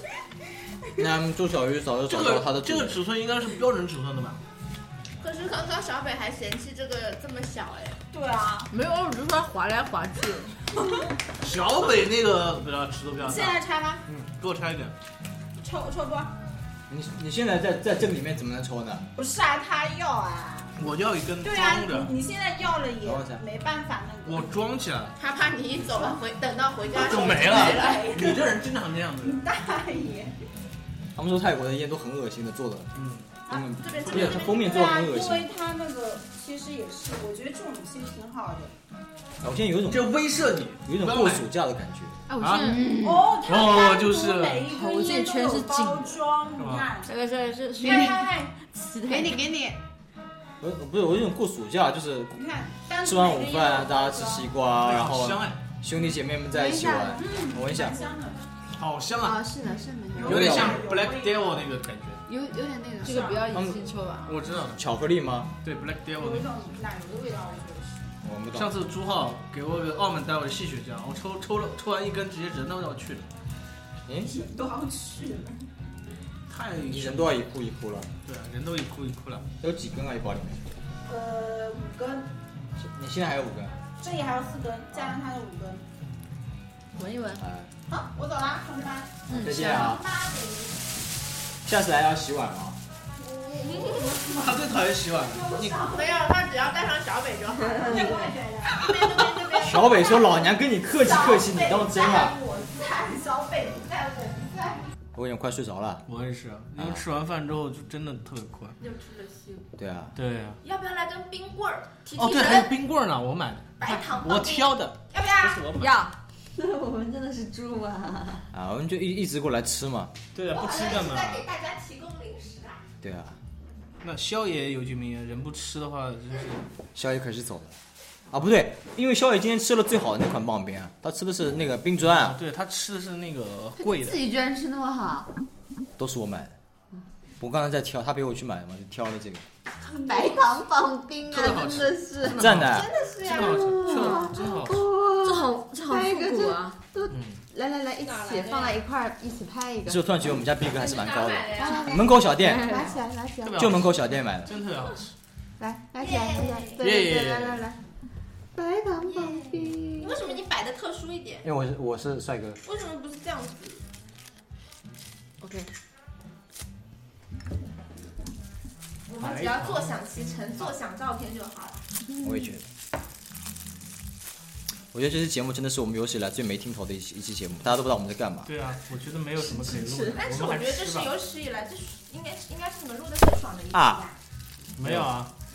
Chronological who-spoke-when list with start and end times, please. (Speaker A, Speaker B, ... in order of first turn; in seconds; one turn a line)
Speaker A: 1.0-3.0
Speaker B: 2.1-4.4
Speaker C: 5.2-8.0
Speaker D: 8.1-8.7
Speaker E: 8.7-10.5
Speaker B: 11.4-14.9
Speaker D: 13.2-14.0
Speaker D: 15.6-16.4
Speaker A: 16.9-19.1
Speaker D: 19.2-20.7
Speaker B: 20.8-22.1
Speaker D: 21.4-24.5
Speaker A: 23.0-23.4
Speaker B: 24.2-25.2
Speaker C: 25.2-28.1
Speaker D: 25.9-26.2
Speaker B: 26.9-29.4
Speaker D: 27.1-28.5
Speaker D: 29.2-30.3
Speaker A: 31.1-32.9
Speaker B: 33.0-33.4
Speaker A: 33.5-35.5
Speaker D: 33.5-38.7
Speaker C: 33.7-34.8
Speaker B: 34.1-34.4
Speaker A: 39.4-40.2
Speaker B: 39.9-41.5
Speaker A: 40.9-42.2
Speaker E: 42.3-43.0
Speaker B: 42.4-42.8
Speaker F: 42.6-43.3
Speaker D: 42.9-47.1
Speaker B: 43.4-44.7
Speaker E: 44.7-46.1
Speaker B: 46.6-46.9
Speaker E: 47.1-49.4
Speaker D: 47.8-48.5
Speaker F: 49.1-49.8
Speaker A: 50.6-52.4
Speaker D: 52.3-54.5
Speaker A: 53.0-58.0
Speaker B: 54.8-55.6
Speaker F: 56.5-57.3
Speaker D: 57.1-58.5
Speaker B: 58.8-59.5
Speaker F: 59.2-60.4
Speaker D: 60.1-61.6
Speaker B: 60.2-62.2
Speaker A: 60.3-60.8
Speaker F: 62.3-63.3
Speaker D: 63.0-63.7
Speaker E: 63.0-64.4
Speaker A: 63.5-63.8
Speaker B: 64.3-64.8
Speaker A: 64.8-65.5
Speaker B: 65.6-66.5
Speaker D: 66.1-68.1
Speaker A: 68.2-68.7
Speaker B: 68.5-73.3
Speaker A: 74.1-74.4
Speaker D: 74.2-75.6
Speaker B: 76.5-77.4
Speaker A: 76.9-78.1
Speaker B: 78.2-79.5
Speaker A: 79.6-80.6
Speaker D: 81.0-82.3
Speaker A: 82.8-83.8
Speaker D: 84.0-85.8
Speaker E: 87.0-87.4
Speaker A: 87.4-87.7
Speaker D: 87.9-89.2
Speaker E: 89.3-90.0
Speaker A: 89.3-90.0
Speaker C: 89.5-90.8
Speaker A: 91.7-92.8
Speaker D: 93.2-94.4
Speaker C: 93.7-94.1
Speaker B: 94.3-95.9
Speaker D: 95.4-95.8
Speaker C: 95.8-100.2
Speaker D: 97.9-100.4
Speaker B: 97.9-99.1
Speaker A: 99.5-102.4
Speaker D: 100.9-104.8
Speaker A: 105.1-106.0
Speaker B: 106.1-108.8
Speaker A: 106.8-107.0
Speaker C: 108.8-109.7
Speaker A: 109.8-110.2
Speaker B: 110.2-110.6
Speaker C: 110.6-112.7
Speaker B: 112.2-116.0
Speaker C: 113.8-115.6
Speaker E: 115.8-116.2
Speaker F: 116.6-118.5
Speaker A: 118.5-120.1
Speaker B: 120.3-121.5
Speaker C: 120.5-122.8
Speaker A: 123.0-123.4
Speaker B: 124.0-126.7
Speaker A: 127.0-127.8
Speaker A: 128.3-132.4
Speaker B: 132.1-134.2
Speaker F: 133.8-135.3
Speaker A: 136.0-136.6
Speaker A: 137.4-139.5
Speaker F: 139.8-142.6
Speaker B: 141.3-144.9
Speaker A: 142.3-142.9
Speaker C: 142.6-144.0
Speaker F: 143.2-150.0
Speaker E: 143.9-144.3
Speaker E: 145.2-146.8
Speaker B: 147.1-147.4
Speaker C: 148.0-148.8
Speaker A: 149.9-152.8
Speaker C: 150.7-152.0
Speaker F: 151.6-153.7
Speaker E: 152.4-152.9
Speaker B: 153.4-155.1
Speaker A: 153.6-154.5
Speaker F: 155.6-157.8
Speaker C: 156.0-156.8
Speaker B: 156.8-157.6
Speaker F: 158.6-160.3
Speaker C: 159.1-161.5
Speaker A: 161.4-162.6
Speaker C: 162.6-163.8
Speaker E: 165.4-165.7
Speaker C: 169.1-171.8
Speaker B: 169.2-170.0
Speaker A: 172.2-172.6
Speaker A: 174.9-178.5
Speaker B: 178.5-181.1
Speaker C: 180.0-184.2
Speaker A: 183.7-184.1
Speaker B: 184.8-185.3
Speaker A: 184.8-185.1